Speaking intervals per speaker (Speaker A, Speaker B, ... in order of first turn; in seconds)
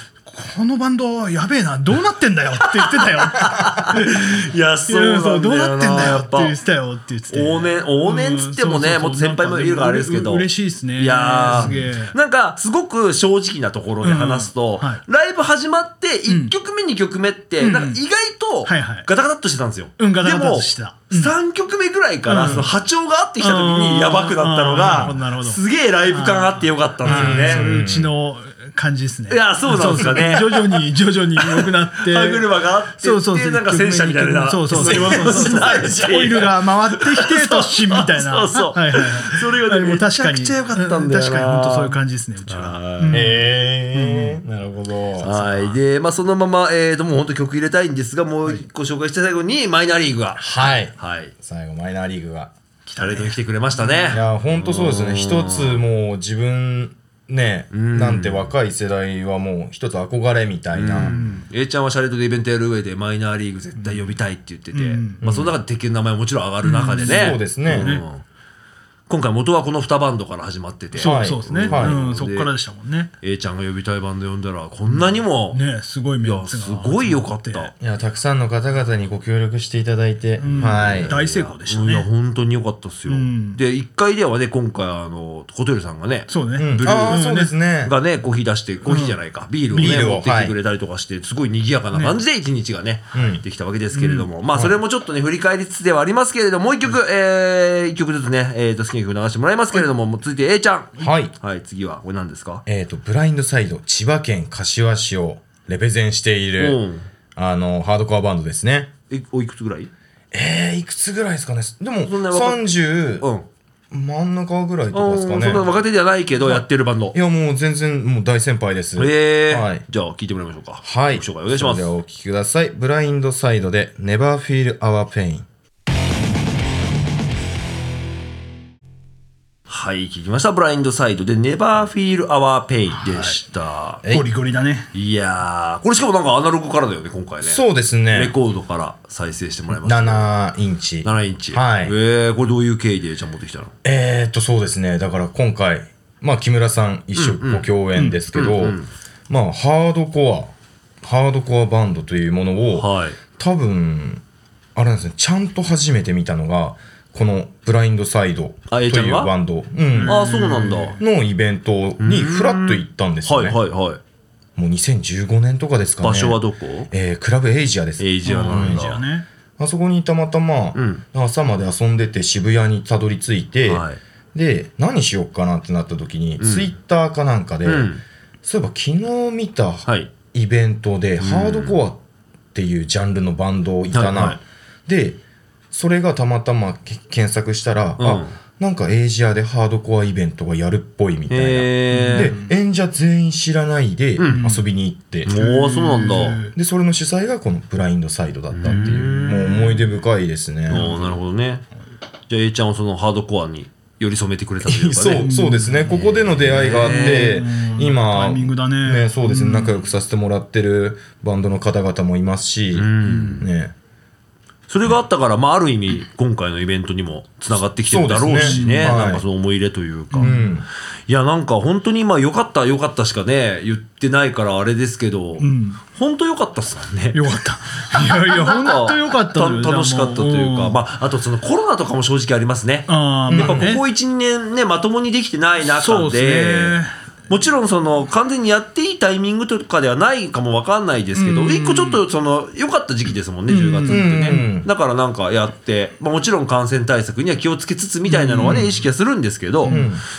Speaker A: 0.2-4.2, 4.9-12.2, 14.0-15.0, 16.3-16.5, 17.6-18.0, 18.6-19.1, 20.0-21.3, 22.2-22.8, 23.4-44.4, 45.2-45.8, 52.9-54.2, 61.0-61.5, 64.7-65.3, 66.6-68.0, 70.9-73.1, 74.9-77.8, 80.4-82.1, 83.1-83.6, 86.3-87.5, 88.8-89.2, 93.9-94.3, 132.9-133.4, 134.0-134.9, 159.9-161.0, 168.2-169.2, 191.9-192.5, 194.3-194.7, 195.3-196.5, 198.7-199.0, 200.7-201.1, 205.2-209.8, 213.0-213.4, 218.4-219.0, 220.1-220.4, 225.4-225.8, 227.1-230.8, 232.9-233.8, 235.6-236.9, 241.2-242.0, 243.5-244.5, 248.1-248.8, 249.6-249.9
Speaker B: 2.9-6.5, 7.3-27.6, 29.3-30.9, 31.4-43.2, 45.2-51.3, 53.0-55.8, 57.7-58.5, 60.7-68.2, 69.1-72.5, 73.2-75.6, 76.2-77.7, 80.4-87.2, 87.8-102.6, 106.6-107.1, 109.1-109.9, 112.0-112.7, 113.2-113.5, 114.9-117.2, 119.0-121.9, 129.7-134.0, 134.9-140.3, 141.0-143.7, 147.1-147.7, 148.3-148.9, 152.7-153.2, 158.7-159.3, 160.1-161.0, 162.0-164.0, 166.0-166.9, 168.0-169.0, 170.7-171.0, 173.7-174.0, 176.4-176.7, 177.6-178.0, 179.8-180.1, 181.2-181.8, 183.9-184.4, 188.0-188.3, 191.3-192.3, 194.2-194.4, 195.2-196.4, 198.5-199.8, 200.7-201.6, 202.3-205.3, 205.9-207.4, 212.7-213.4, 214.7-220.4, 221.1-227.3, 227.9-236.8, 237.3-249.8
Speaker C: 24.9-25.1, 27.0-28.1, 34.7-36.4, 43.1-45.3, 50.4-52.5, 54.1-61.2, 65.2-65.5, 67.0-68.0, 71.0-72.1, 77.8-81.1, 86.6-87.9, 89.7-90.5, 93.1-93.4, 101.0-101.3, 102.7-106.8, 107.3-108.9, 110.3-113.3, 113.9-115.7, 116.4-119.8, 120.8-125.5, 137.4-138.3, 139.7-141.9, 143.8-148.8, 149.3-154.2, 154.7-160.2, 161.0-163.6, 164.6-168.9, 169.6-177.9, 178.4-182.0, 182.5-185.2, 185.7-195.3, 196.3-200.9, 204.6-213.7, 217.9-219.2, 220.2-220.7, 233.3-233.8, 243.9-244.7, 249.7-250.0